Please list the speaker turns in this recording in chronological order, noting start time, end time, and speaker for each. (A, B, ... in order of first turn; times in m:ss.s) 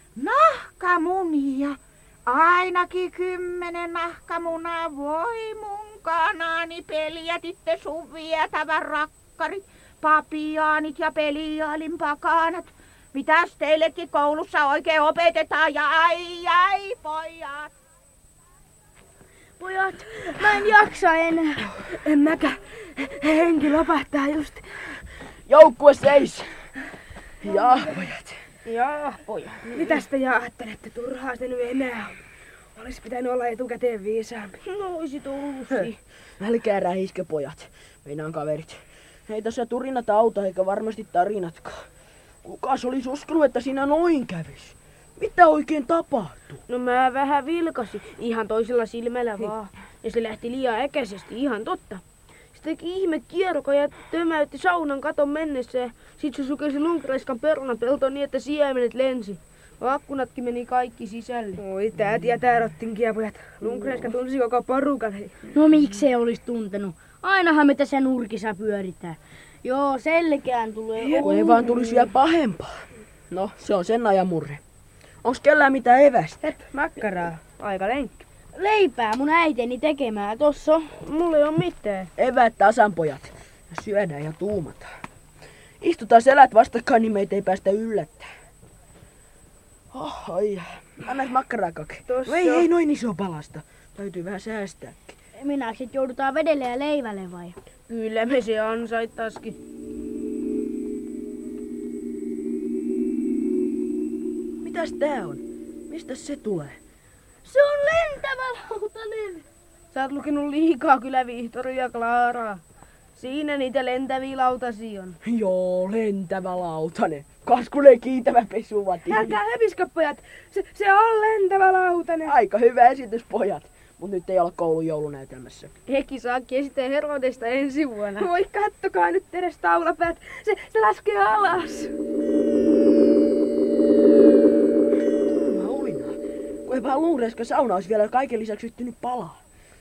0:00.2-0:17.7 A
0:19.6-0:21.7 B
0:21.9-0:24.6 C
0:25.5-0:26.4 D
0:27.4-0:28.4 D
0:28.6-0:30.0 E
0:29.7-0:32.2 C
0:32.8-0:34.6 C
0:34.6-0:36.0 E
0:36.4-0:41.9 D
0:42.4-0:46.6 D
0:46.7-0:52.0 E
0:52.5-1:01.6 E
1:01.6-1:05.5 C
1:05.5-1:11.7 B
1:11.2-1:14.6 D
1:15.2-1:16.4 D
1:16.4-1:18.2 C
1:18.5-1:20.9 B
1:20.9-1:22.1 E
1:22.2-1:24.9 D
1:25.8-1:28.3 D
1:29.9-1:35.2 D
1:32.1-1:32.7 C
1:35.4-1:37.6 B
1:37.9-1:39.6 E
1:44.6-1:46.8 D
1:47.4-1:52.6 E
1:53.2-1:55.2 E
1:55.2-1:59.4 D
1:59.1-2:02.3 C
2:02.2-2:05.7 D
2:05.9-2:08.3 E
2:08.2-2:11.9 C
2:15.2-2:19.4 D